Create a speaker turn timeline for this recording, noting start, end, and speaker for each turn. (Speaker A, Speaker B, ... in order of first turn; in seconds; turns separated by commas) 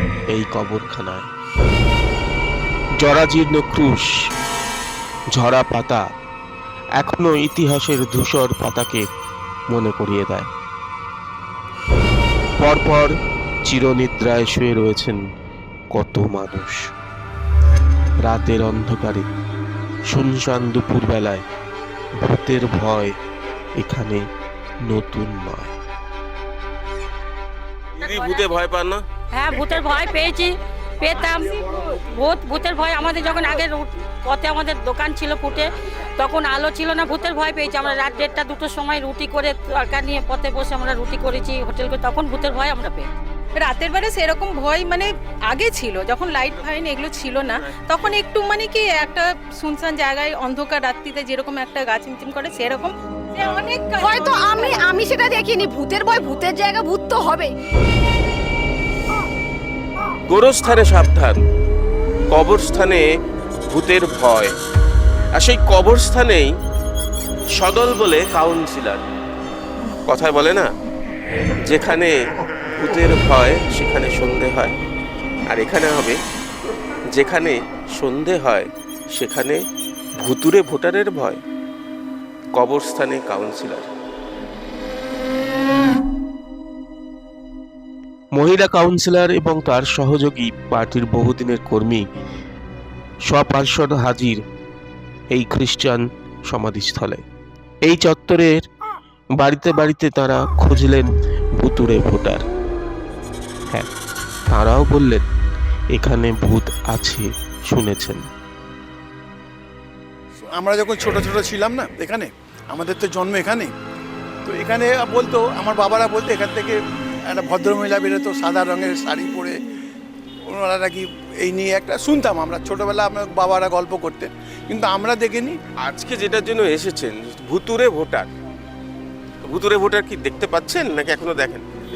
Speaker A: 0.3-1.3, Speaker A: 3.0-4.1, Speaker A: 5.3-6.0, Speaker A: 7.0-9.1, Speaker A: 9.7-10.5, Speaker A: 12.6-13.1, Speaker A: 13.7-15.2, Speaker A: 15.9-16.8, Speaker A: 18.2-19.3, Speaker A: 20.1-21.4, Speaker A: 22.2-23.1, Speaker A: 23.8-24.2, Speaker A: 24.9-25.7, Speaker A: 28.0-29.0, Speaker B: 28.1-28.5, Speaker B: 29.3-43.1, Speaker C: 43.6-55.1, Speaker D: 54.0-57.5, Speaker A: 60.3-61.4, Speaker A: 62.3-63.0, Speaker A: 63.6-64.5, Speaker A: 65.3-66.5, Speaker A: 67.5-69.0, Speaker A: 70.1-70.7, Speaker A: 71.6-72.2, Speaker A: 72.7-74.8, Speaker A: 75.5-76.2, Speaker A: 77.1-79.6, Speaker A: 80.2-81.4, Speaker A: 82.5-83.9, Speaker A: 88.3-92.1, Speaker A: 93.2-94.4, Speaker A: 95.3-97.2, Speaker A: 97.8-98.6, Speaker A: 99.3-102.4, Speaker A: 104.5-105.2, Speaker A: 105.9-108.3, Speaker E: 110.5-113.7, Speaker E: 114.4-119.6, Speaker E: 120.5-125.6, Speaker A: 125.8-128.2, Speaker A: 129.4-131.5